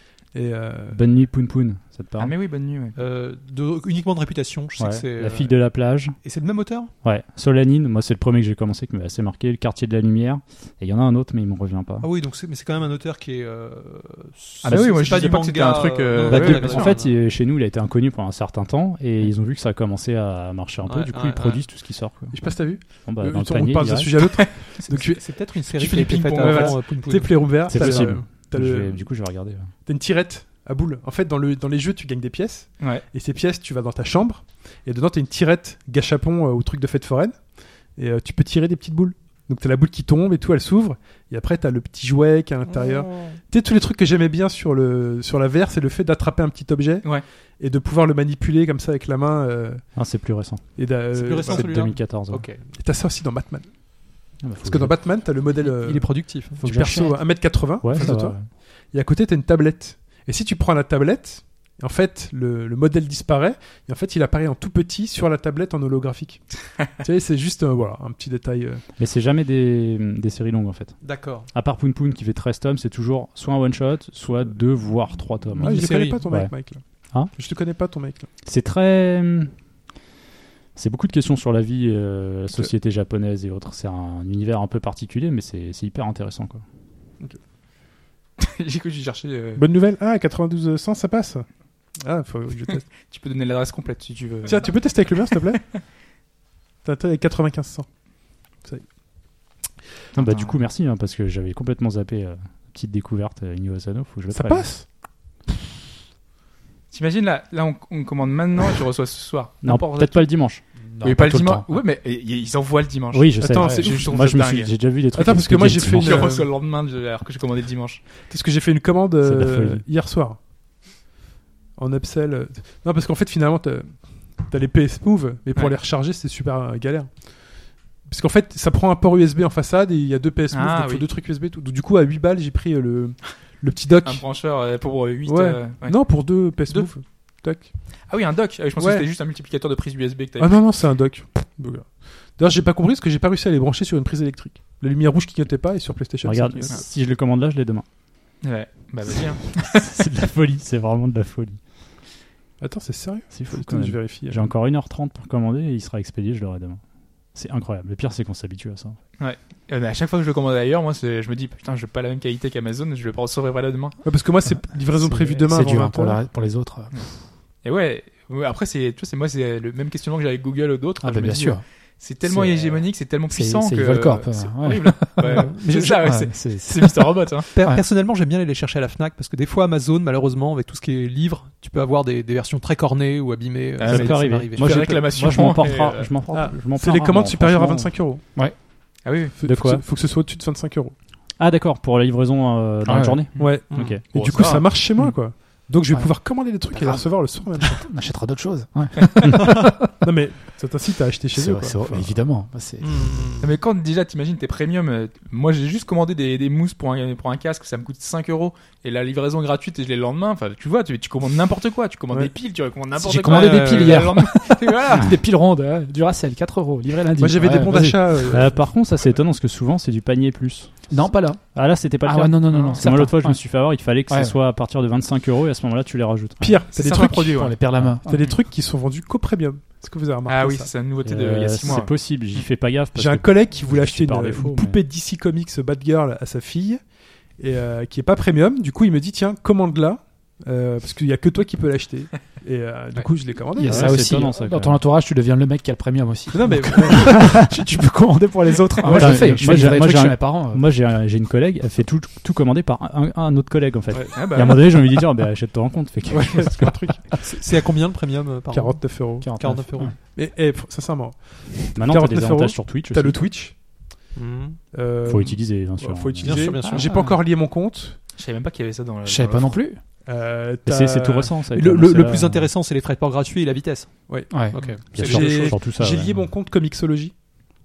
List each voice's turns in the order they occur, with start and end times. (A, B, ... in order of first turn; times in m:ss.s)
0:00.3-0:01.0 A
0:00.9-0:02.3 B
0:02.2-0:03.0 C
0:03.0-0:05.7 D
0:04.8-0:06.2 B
0:06.2-0:06.9 D
0:07.0-0:12.1 B
0:12.0-0:17.2 D
0:14.6-0:16.9 C
0:14.6-0:15.4 B
0:16.2-0:24.4 B
0:20.8-0:21.6 D
0:22.3-0:29.2 A
0:24.9-0:28.0 D
0:26.4-0:26.7 C
0:27.6-0:29.7 B
0:29.8-0:37.4 A
0:38.0-0:49.9 A
0:42.6-0:43.4 D
0:49.9-0:50.8 B
0:50.8-0:52.0 A
0:51.1-0:52.6 D
0:51.4-0:52.4 B
0:52.7-0:54.0 A
0:54.4-0:55.0 B
0:54.6-1:08.8 A
0:55.5-0:56.9 D
0:56.7-0:58.4 B
1:09.0-1:16.5 B
1:11.0-1:11.5 D
1:15.6-1:18.3 A
1:15.6-1:16.2 D
1:18.4-1:19.5 B
1:20.7-1:26.6 B
1:28.4-1:29.6 C
1:29.6-1:31.4 A
1:32.0-1:32.8 A
1:33.0-1:35.5 C
1:34.4-1:35.6 A
1:36.8-1:37.9 A
1:40.1-1:44.7 B
1:40.1-1:40.5 C
1:44.3-1:44.8 A
1:46.9-1:50.3 C
1:49.6-1:50.6 B
1:50.8-1:51.6 E
1:51.0-1:54.7 C
1:53.1-1:56.3 B
1:53.4-1:54.2 A
1:55.1-1:56.5 A
1:55.6-1:58.0 C
1:58.3-2:00.4 A
1:59.2-1:59.8 B
2:01.8-2:07.3 A
2:08.0-2:14.2 A
2:10.5-2:11.0 C
2:14.0-2:16.9 C
2:15.2-2:17.7 A
2:18.1-2:20.7 C
2:18.8-2:19.1 A
2:20.4-2:26.8 A
2:26.2-2:27.8 B
2:28.4-2:30.0 C
2:29.6-2:31.6 B
2:32.6-2:34.5 A
2:33.3-2:36.8 B
2:37.3-2:39.0 B
2:39.2-2:44.0 C
2:44.0-2:46.2 A
2:44.8-2:47.1 E
2:47.6-2:57.5 C
2:51.0-2:51.6 E
2:52.2-2:57.8 E
2:55.2-2:56.1 D
2:57.5-3:05.1 D
3:03.8-3:06.1 C
3:03.9-3:07.9 B
3:06.3-3:08.2 A
3:09.0-3:09.3 C
3:09.3-3:10.9 A
3:09.4-3:09.8 B
3:11.4-3:14.5 B
3:12.8-3:13.3 E
3:13.3-3:14.8 C
3:13.4-3:17.8 A
3:16.7-3:20.0 E
3:20.0-3:22.1 A
3:21.3-3:23.2 E
3:22.8-3:23.5 D
3:23.4-3:35.2 C
3:32.9-3:38.4 E
3:33.3-3:34.0 D
3:37.2-3:38.6 A
3:38.3-3:46.6 B
3:40.9-3:44.4 E
3:42.5-3:42.9 C
3:46.4-3:50.7 A
3:46.7-3:47.6 C
3:47.0-3:48.3 E
3:50.2-3:52.5 C
3:51.0-3:54.8 B
3:52.9-3:56.8 A
3:57.4-4:04.2 A
4:03.6-4:10.6 E
4:03.6-4:04.8 B
4:06.3-4:07.5 A
4:08.8-4:09.5 A
4:08.8-4:17.0 B
4:13.9-4:14.7 A
4:14.1-4:14.7 C
4:16.1-4:17.2 A
4:17.2-4:19.9 D
4:18.5-4:19.3 A
4:19.2-4:20.0 E
4:20.0-4:23.6 A
4:21.7-4:23.2 B
4:24.1-4:24.6 D
4:24.7-4:28.0 A
4:25.0-4:26.6 B
4:26.2-4:27.0 D
4:26.7-4:27.2 E
4:28.2-4:29.6 C
4:29.0-4:29.8 E
4:30.0-4:31.3 A
4:30.6-4:32.5 B
4:31.5-4:35.6 D
4:34.1-4:37.2 A
4:34.3-4:34.6 E
4:34.9-4:36.2 B